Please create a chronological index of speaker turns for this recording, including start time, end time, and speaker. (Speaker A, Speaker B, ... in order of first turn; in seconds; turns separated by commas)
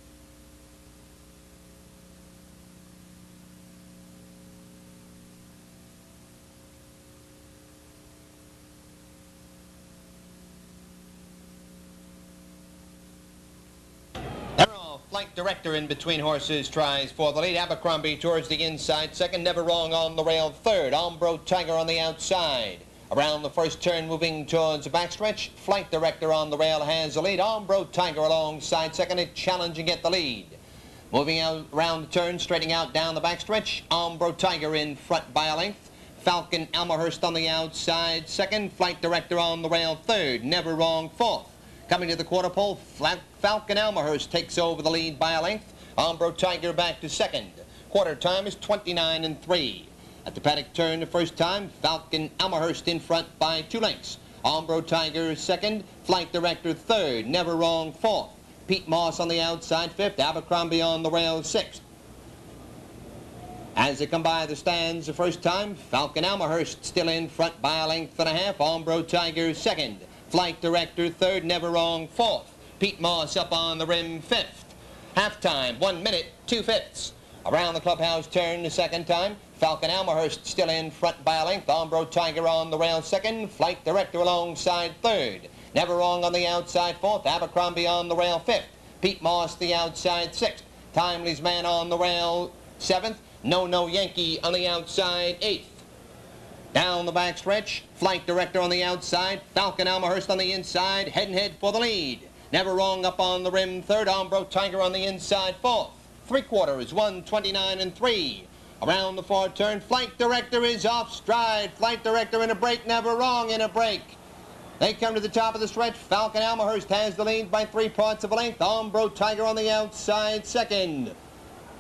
Speaker A: 14.6-30.6, Speaker A: 31.1-61.9, Speaker A: 63.8-95.8, Speaker A: 96.7-114.2, Speaker A: 114.8-121.2